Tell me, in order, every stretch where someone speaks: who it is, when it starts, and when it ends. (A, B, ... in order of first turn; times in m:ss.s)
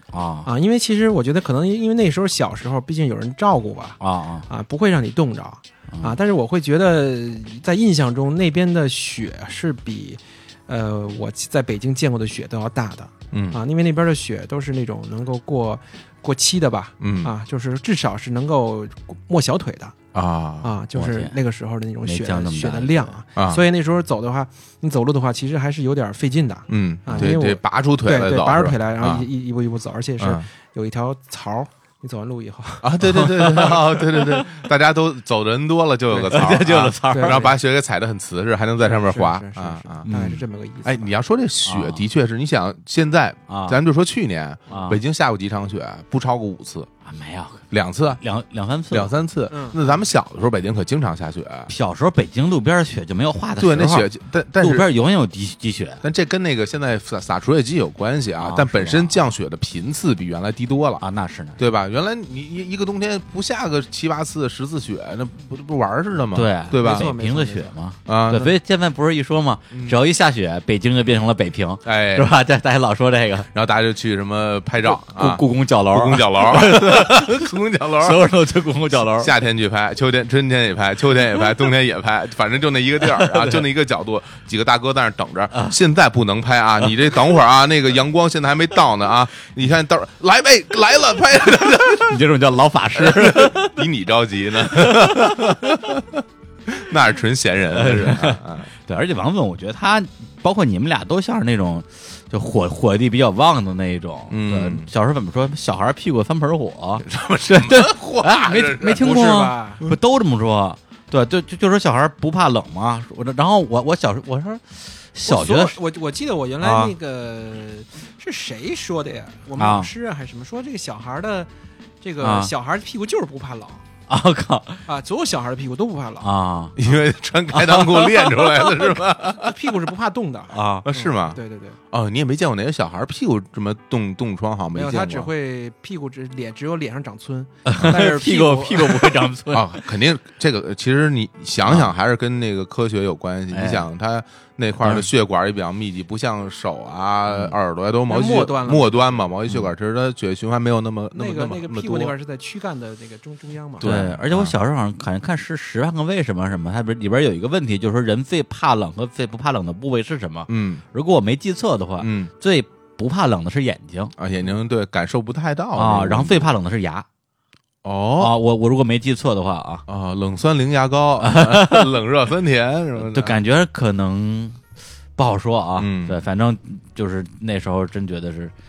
0:00.1-0:00.5 A
0:00.4-0:20.0 B
0:04.0-0:04.4 A
0:13.3-0:13.6 C
0:17.0-0:17.3 C
0:20.1-0:20.7 C
0:20.6-0:32.9 B
0:20.9-0:21.3 A
0:22.0-0:23.1 A
0:23.4-0:23.6 C
0:26.7-0:29.3 C
0:30.2-0:30.4 C
0:32.8-0:46.9 C
0:33.0-0:34.4 A
0:36.1-0:37.5 B
0:36.3-0:37.5 A
0:38.8-0:41.1 B
0:40.1-0:40.3 A
0:41.6-0:42.0 A
0:43.5-0:43.8 A
0:44.7-0:45.0 A
0:47.0-0:47.6 A
0:47.7-0:48.2 C
0:48.2-0:49.1 A
0:48.9-0:51.7 C
0:49.5-0:49.8 B
0:51.7-0:54.1 A
0:53.6-0:54.9 C
0:54.6-0:56.0 A
0:56.0-1:01.0 C
0:58.4-0:59.1 A
1:01.0-1:01.6 A
1:01.6-1:07.1 C
1:06.3-1:13.5 A
1:06.7-1:07.7 B
1:08.0-1:08.5 C
1:09.7-1:10.0 C
1:11.8-1:12.3 C
1:13.5-1:18.2 C
1:14.8-1:19.3 A
1:18.9-1:32.2 C
1:23.1-1:23.6 A
1:32.0-1:33.8 A
1:32.9-1:38.7 C
1:34.7-1:35.8 A
1:37.7-1:55.8 A
1:44.3-1:44.9 C
1:47.0-1:50.0 C
1:49.0-1:49.8 B
1:55.2-2:01.5 B
1:56.6-1:56.9 A
1:59.6-1:59.9 A
2:02.0-2:03.8 B
2:02.2-2:02.5 A
2:04.1-2:04.8 A
2:04.9-2:06.3 B
2:06.2-2:06.8 A
2:06.8-2:09.7 C
2:07.5-2:08.6 A
2:09.2-2:11.8 B
2:10.5-2:10.8 A
2:10.8-2:11.4 C
2:11.9-2:15.3 C
2:14.7-2:19.2 B
2:17.6-2:19.8 A
2:19.5-2:32.1 C
2:23.5-2:23.8 A
2:28.1-2:29.2 B
2:31.1-2:34.0 B
2:33.8-2:34.5 C
2:33.8-2:44.1 A
2:40.5-2:40.8 C
2:42.0-2:42.3 C
2:44.2-2:46.5 C
2:45.8-2:47.0 A
2:47.8-2:48.3 C
2:48.2-2:49.8 A
2:49.9-2:53.4 C
2:51.2-2:51.9 A
2:53.0-2:54.6 A
2:55.2-2:58.5 A
2:55.8-2:56.2 C